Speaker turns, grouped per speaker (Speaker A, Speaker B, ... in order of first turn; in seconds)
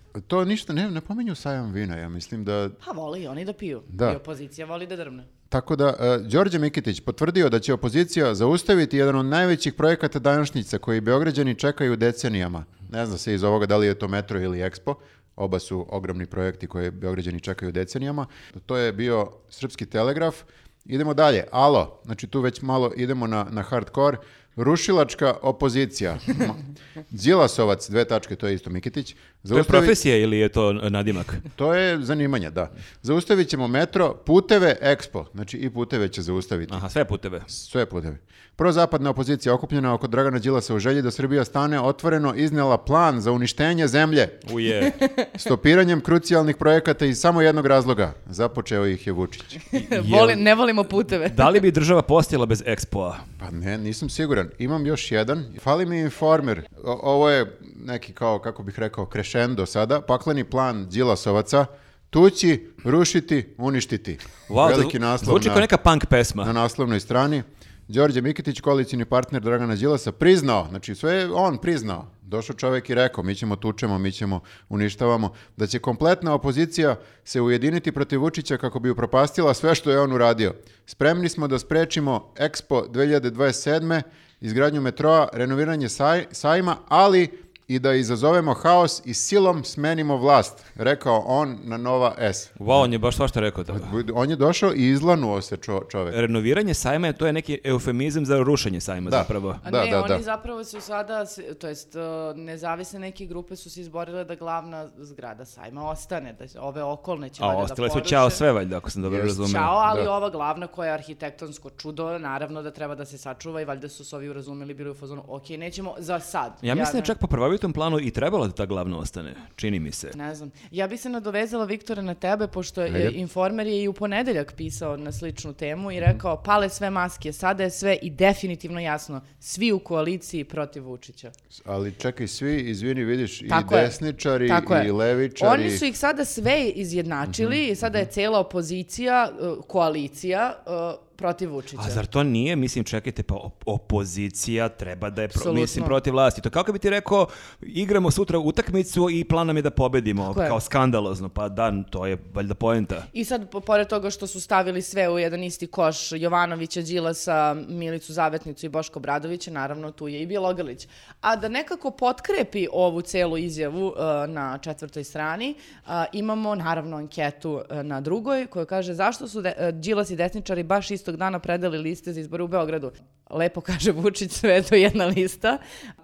Speaker A: 0.2-2.8, 3.9-4.2, 5.5-30.0, 31.6-36.8, 37.5-44.4, 45.4-49.7, 53.4-65.7, 66.4-92.8, 93.7-96.2, 99.0-100.2, 109.0-110.1, 122.9-123.2, 131.5-135.8, 137.3-137.6
Speaker B: 2.8-5.3, 44.8-45.3, 49.7-51.6, 99.6-108.4, 109.3-117.1, 120.1-131.3, 133.5-142.0, 145.3-146.0, 150.2-150.6, 153.1-175.6
Speaker C: 29.5-31.4, 36.7-37.5, 44.5-45.0, 49.9-50.4, 51.2-53.2, 64.5-66.5, 92.6-93.9, 96.1-99.6, 107.4-109.8, 116.6-120.2, 141.8-153.1